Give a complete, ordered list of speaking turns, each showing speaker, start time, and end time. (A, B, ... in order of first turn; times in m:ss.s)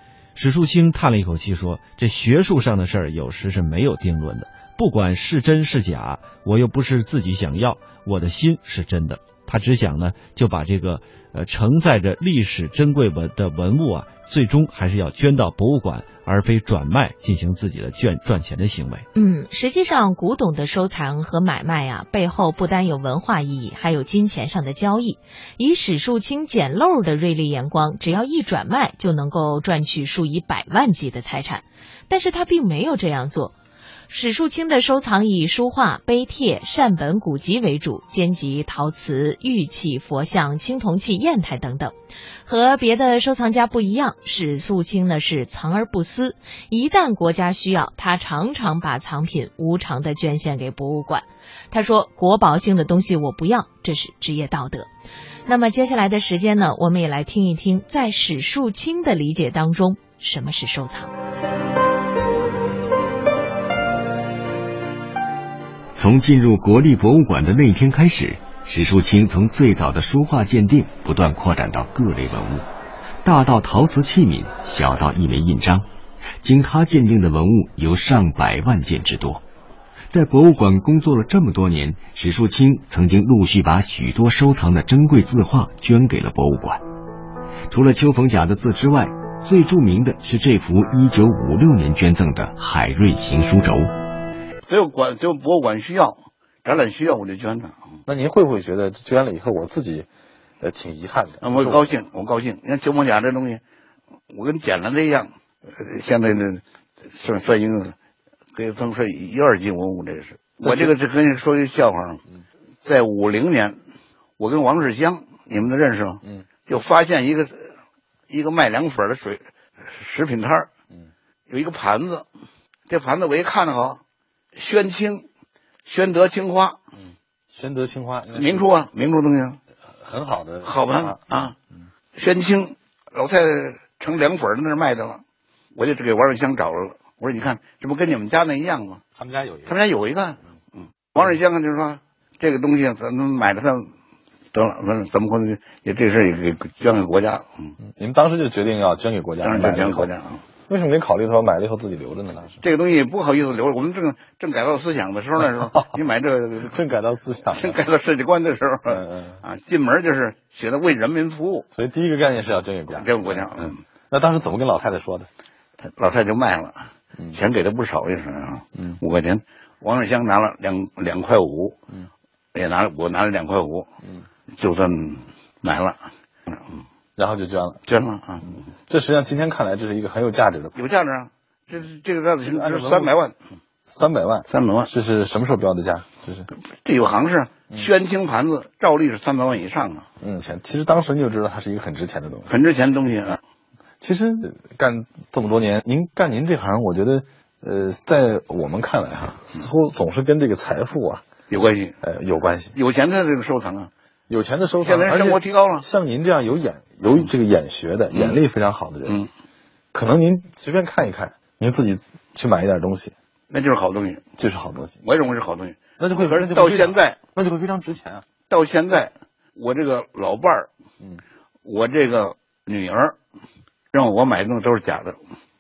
0:00.4-0:19.1 A
0:19.2-0:33.5 B
0:34.1-0:41.9 B
0:42.5-0:54.9 B
0:55.5-1:01.1 B
1:05.9-1:12.7 C
1:13.2-1:15.9 C
1:16.4-1:19.4 C
1:20.1-1:26.8 C
1:27.7-1:33.9 C
1:34.7-1:37.8 D
1:38.1-1:40.1 E
1:40.6-1:41.9 E
1:41.4-1:43.6 D
1:44.3-1:46.6 D
1:47.1-1:48.0 D
1:48.6-1:52.2 D
1:50.6-1:50.9 E
1:52.8-1:53.8 D
1:54.4-1:57.7 D
1:58.3-2:00.7 D
2:01.5-2:02.3 D
2:02.9-2:04.0 D
2:04.6-2:05.3 D
2:05.9-2:06.8 D
2:07.0-2:08.6 E
2:08.4-2:09.6 D
2:10.0-2:11.8 E
2:10.6-2:11.5 D
2:12.2-2:15.2 D
2:15.8-2:19.0 D
2:19.2-2:19.8 E
2:19.7-2:23.9 D
2:24.5-2:27.7 D
2:27.8-2:30.1 E
2:29.4-2:30.4 D
2:30.7-2:32.6 E
2:32.6-2:36.7 D
2:35.4-2:35.9 E
2:36.6-2:37.8 E
2:37.6-2:41.7 D
2:38.9-2:39.4 E
2:41.7-2:45.3 E
2:42.9-2:43.8 D
2:46.0-2:51.8 D
2:52.6-2:53.9 D
2:54.6-2:56.1 D
2:57.2-2:57.8 E
2:57.9-2:58.6 D
2:58.9-3:00.8 E
3:00.8-3:03.4 D
3:02.4-3:03.1 E
3:03.9-3:06.5 E
3:04.5-3:04.9 D
3:06.8-3:10.1 D
3:10.2-3:12.5 E
3:12.5-3:13.4 D
3:14.0-3:21.2 E
3:21.5-3:22.0 D
3:22.0-3:22.8 E
3:22.7-3:23.9 D
3:24.3-3:29.2 E
3:24.8-3:25.8 D
3:29.9-3:33.1 E
3:33.5-3:34.2 D
3:34.4-3:35.0 E
3:35.0-3:37.2 D
3:36.0-3:38.2 E
3:38.5-3:40.7 D
3:41.6-3:43.2 D
3:43.9-3:45.2 D